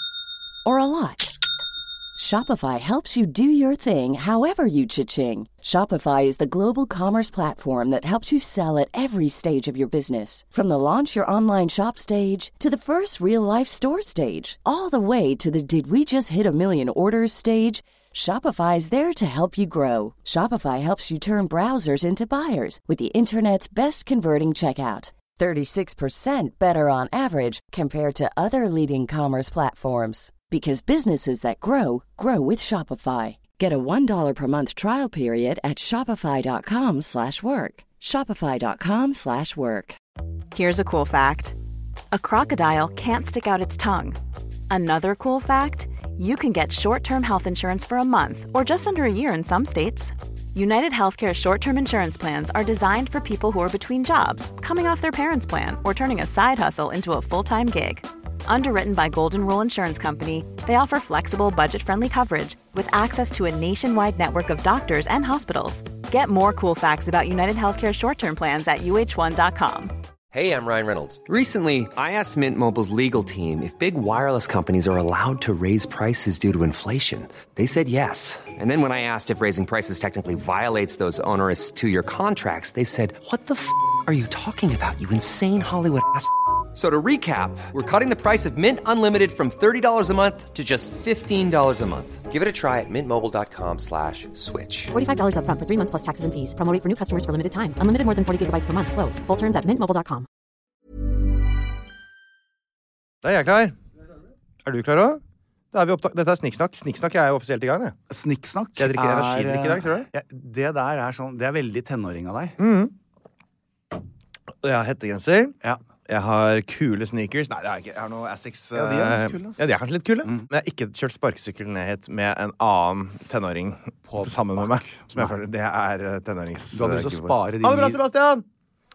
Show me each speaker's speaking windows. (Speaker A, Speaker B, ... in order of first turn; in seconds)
Speaker A: 0.7-1.4, 2.2-40.0
Speaker B: 40.5-41.6, 42.1-44.2, 44.7-69.9
Speaker C: 70.3-94.9
Speaker D: 94.9-100.3
Speaker E: 103.2-103.8, 104.7-105.2, 105.7-108.0, 108.8-110.1, 112.6-112.9, 114.6-115.6, 116.1-128.4
Speaker F: 108.1-112.6, 118.7-119.7, 124.1-125.3, 126.7-128.0